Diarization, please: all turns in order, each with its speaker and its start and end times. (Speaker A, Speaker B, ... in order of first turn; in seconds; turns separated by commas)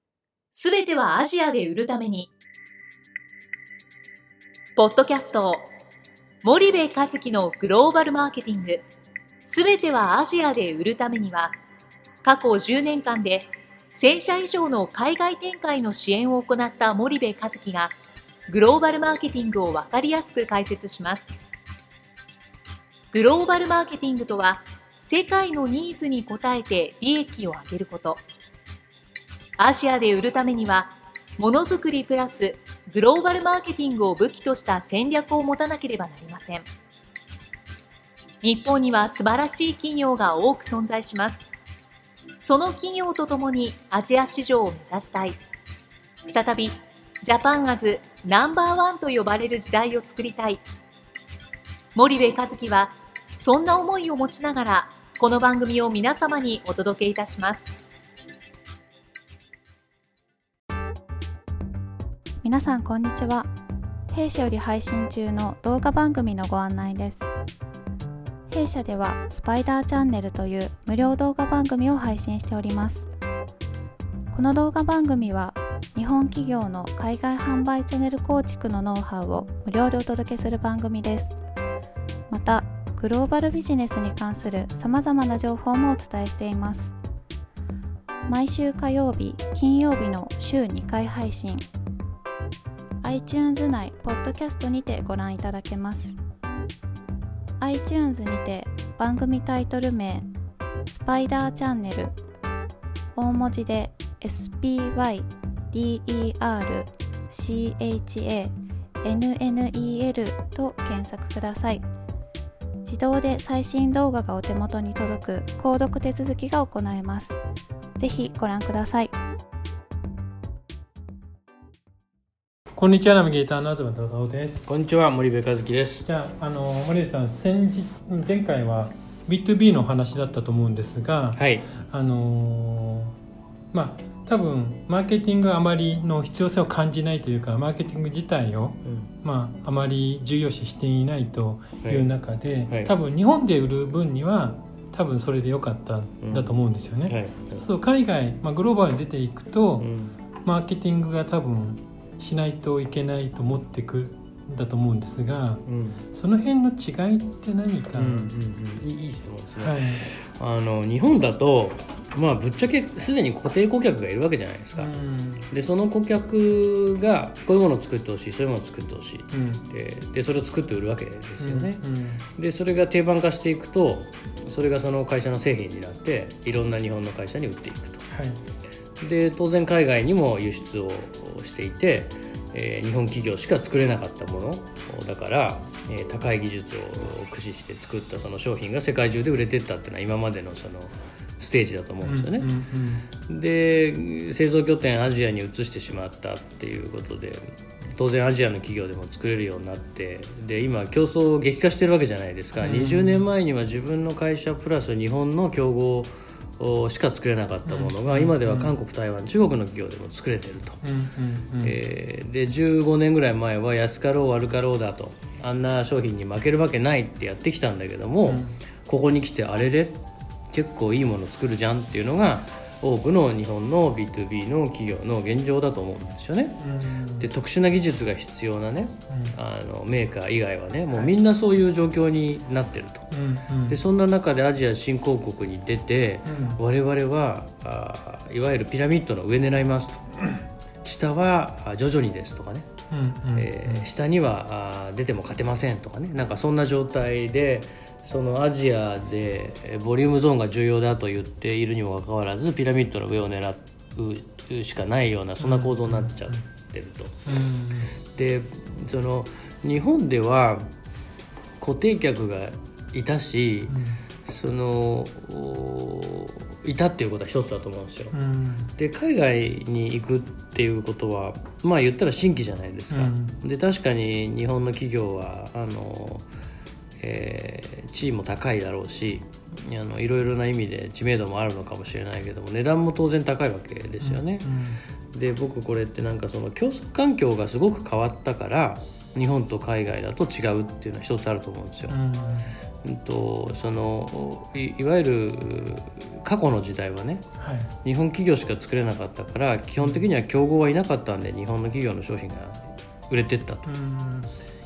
Speaker A: 0.5-2.3, Speaker A: 4.8-5.7, Speaker A: 6.4-8.8, Speaker A: 9.4-11.6, Speaker A: 12.2-17.9, Speaker A: 18.5-21.3, Speaker A: 23.1-28.2, Speaker A: 29.6-36.6, Speaker A: 38.4-41.4, Speaker A: 42.4-45.4, Speaker A: 46.2-50.6, Speaker A: 51.9-57.6, Speaker B: 62.4-63.5, Speaker B: 64.1-67.3, Speaker B: 68.5-73.1, Speaker B: 74.3-81.4, Speaker B: 82.3-86.9, Speaker B: 88.2-91.7, Speaker B: 93.0-96.2, Speaker B: 97.6-100.3, Speaker B: 100.9-102.2, Speaker B: 103.1-111.8, Speaker B: 112.8-117.3, Speaker B: 118.0-119.1, Speaker C: 122.8-124.7, Speaker D: 124.7-126.0, Speaker C: 126.0-133.1, Speaker D: 131.3-131.7, Speaker C: 133.7-149.9, Speaker D: 138.8-139.1, Speaker D: 141.8-142.1, Speaker D: 146.2-146.6, Speaker D: 147.1-147.7, Speaker D: 149.8-150.1, Speaker C: 150.4-158.3, Speaker D: 155.7-156.0, Speaker D: 157.9-164.9, Speaker C: 159.6-160.1, Speaker C: 164.7-165.5, Speaker D: 165.5-171.8, Speaker C: 169.3-169.7, Speaker C: 171.4-172.2, Speaker D: 172.4-178.1, Speaker C: 178.1-178.4, Speaker D: 179.0-192.5, Speaker C: 192.0-193.1, Speaker D: 193.3-210.8, Speaker C: 202.6-203.2, Speaker C: 207.6-208.7, Speaker C: 210.8-211.8, Speaker D: 211.6-226.6, Speaker C: 218.2-218.6, Speaker C: 226.6-227.3, Speaker D: 227.2-233.1, Speaker C: 229.1-229.4, Speaker C: 233.1-233.8, Speaker D: 233.7-240.1, Speaker C: 236.2-236.6, Speaker D: 240.8-242.7, Speaker C: 242.9-243.9, Speaker D: 243.3-257.1, Speaker C: 255.4-256.4, Speaker C: 257.2-257.9, Speaker D: 258.1-260.7, Speaker D: 261.6-263.7, Speaker C: 263.7-264.0, Speaker D: 264.2-268.1, Speaker C: 268.1-268.7, Speaker D: 268.8-276.2, Speaker C: 272.9-273.4, Speaker D: 277.0-284.5, Speaker C: 284.0-284.8, Speaker D: 285.1-292.0, Speaker C: 291.9-292.5, Speaker D: 292.8-297.2, Speaker C: 297.4-297.7, Speaker D: 297.8-303.7, Speaker C: 299.8-300.1, Speaker C: 303.6-304.3